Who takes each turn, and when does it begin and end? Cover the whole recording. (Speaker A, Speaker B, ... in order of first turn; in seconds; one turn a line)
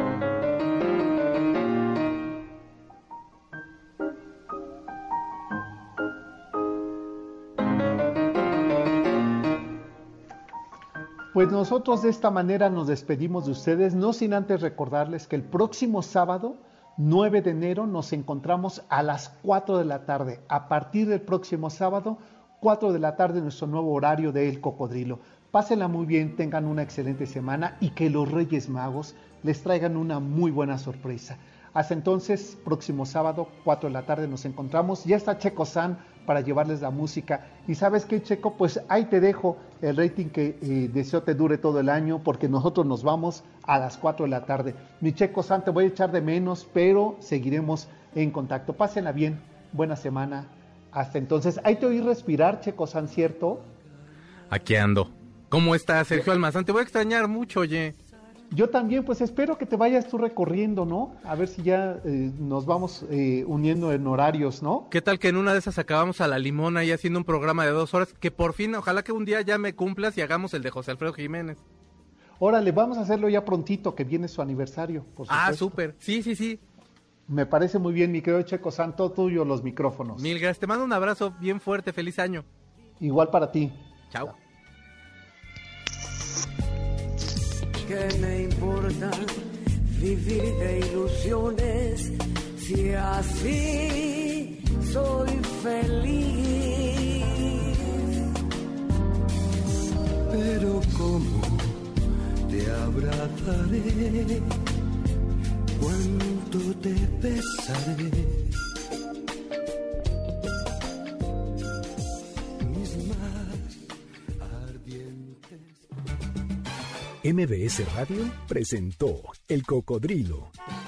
Speaker A: 11.3-53.7
Speaker B: 54.5-58.0
Speaker A: 58.5-64.9
Speaker B: 64.9-71.6
Speaker A: 72.4-75.8
Speaker B: 75.3-76.6
Speaker A: 77.3-80.3
Speaker B: 80.2-82.5
Speaker A: 83.0-84.3
Speaker C: 87.8-98.1
Speaker D: 100.3-102.0
Speaker D: 102.5-104.7
Speaker D: 105.8-108.6
Speaker D: 112.6-115.8
Speaker E: 117.2-120.5